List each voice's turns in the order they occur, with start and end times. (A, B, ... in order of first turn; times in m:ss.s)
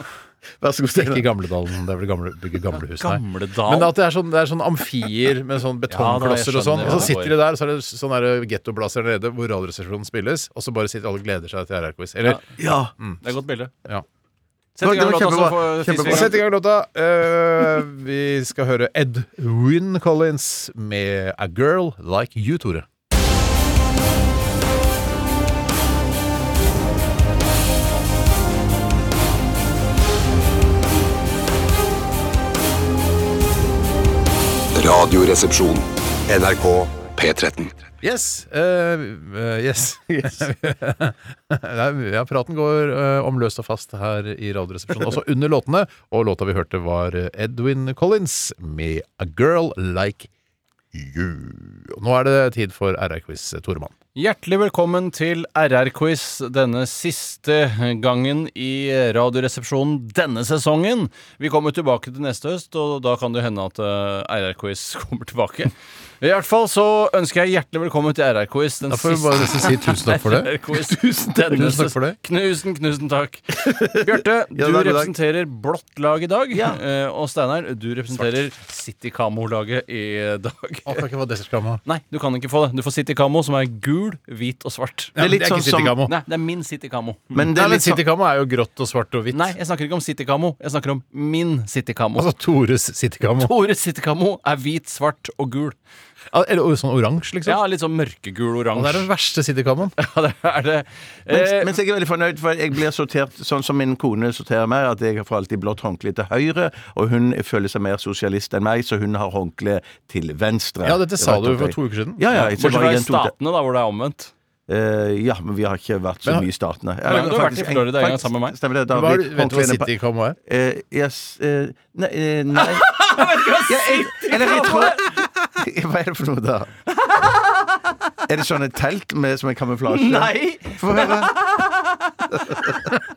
0:00.6-0:01.3 A
0:01.0-0:12.4 B
0:02.9-0:03.9 C
0:05.9-0:07.4 C
0:12.6-0:12.9 A
0:13.2-0:13.7 C
0:14.8-0:16.3 C
0:14.8-0:16.4 A
0:16.0-0:22.9 B
0:34.7-0:37.8 D
0:38.0-0:50.3 B
0:40.1-0:40.4 A
0:50.9-0:53.9 B
0:54.2-1:21.0 C
1:08.9-1:10.6 B
1:11.5-1:12.2 B
1:13.6-1:14.0 A
1:14.6-1:15.1 A
1:16.5-1:16.8 A
1:20.9-1:21.8 B
1:21.8-1:25.2 C
1:25.2-1:26.1 B
1:25.2-1:26.0 A
1:26.1-1:27.4 C
1:27.3-1:28.0 A
1:27.4-1:29.6 B
1:29.3-1:32.3 C
1:32.2-1:33.5 B
1:33.4-1:35.8 C
1:36.3-1:37.6 B
1:37.4-1:39.1 C
1:38.8-1:39.9 B
1:40.0-1:41.7 C
1:41.3-1:53.3 A
1:50.8-1:52.2 B
1:52.3-1:54.3 C
1:54.7-1:59.9 A
1:57.1-1:58.6 C
1:58.9-2:00.4 B
2:00.5-2:06.7 A
2:02.6-2:05.2 C
2:07.0-2:07.8 C
2:08.3-2:11.4 A
2:09.9-2:12.6 C